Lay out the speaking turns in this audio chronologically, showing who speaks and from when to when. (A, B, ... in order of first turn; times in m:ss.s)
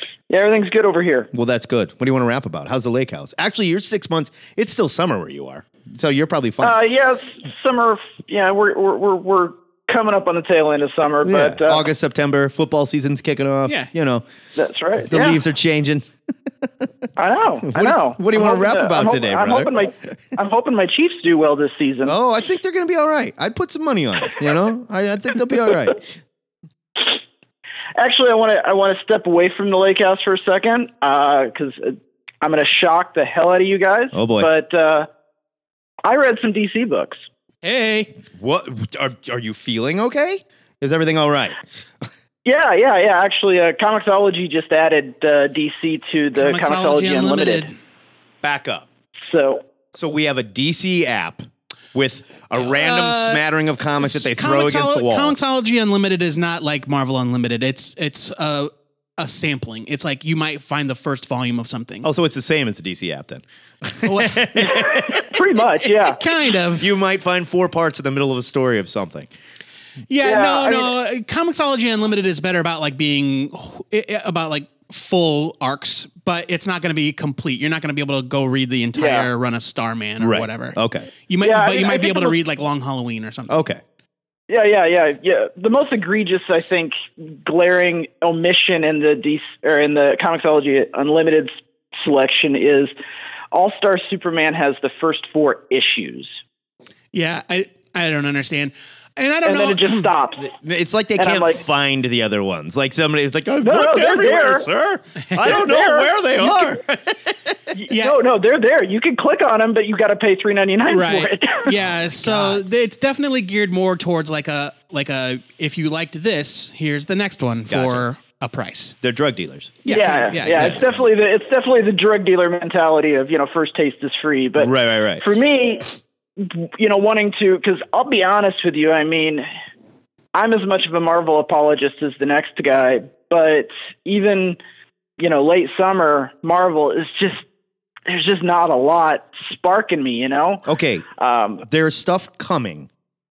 0:00.3-0:01.3 A
0:01.3-0:06.8 B
0:06.6-0:11.9 A
0:11.2-0:14.2 B
0:13.7-0:13.9 C
0:14.6-0:15.4 A
0:15.0-0:16.1 B
0:17.2-0:22.2 A
0:17.7-0:20.1 B
0:22.0-0:26.0 B
0:28.0-0:35.1 A
0:34.1-0:34.5 B
0:36.0-0:37.2 A
0:37.6-0:38.1 C
0:38.4-0:41.6 B
0:42.4-0:47.7 A
0:46.4-0:47.7 C
0:48.4-0:48.9 B
0:49.3-0:49.6 A
0:49.9-0:55.4 B
0:52.6-0:53.4 C
0:54.0-1:02.1 C
1:02.0-1:05.3 B
1:04.0-1:04.6 C
1:04.6-1:06.2 A
1:06.2-1:06.9 C
1:06.8-1:09.3 B
1:10.1-1:23.6 C
1:10.2-1:10.9 A
1:19.0-1:19.3 A
1:20.2-1:21.1 B
1:21.4-1:22.4 A
1:23.5-1:23.8 B
1:24.5-1:32.9 A
1:33.5-1:36.4 A
1:37.1-1:40.1 C
1:39.4-1:40.5 A
1:40.4-1:47.4 B
1:41.2-1:41.6 A
1:43.6-1:44.7 A
1:45.3-1:45.6 C
1:45.4-1:46.1 A
1:47.7-1:51.7 A
1:47.9-1:48.1 C
1:50.9-1:59.0 C
1:51.8-1:52.6 B
1:57.7-1:58.1 B
1:59.0-2:01.0 B
1:59.8-2:00.8 C
1:59.9-2:09.5 A
2:04.6-2:05.2 B
2:10.3-2:14.6 A
2:15.2-2:17.4 A
2:18.1-2:20.6 A
2:20.6-2:21.1 B
2:21.2-2:21.6 A
2:21.7-2:22.9 B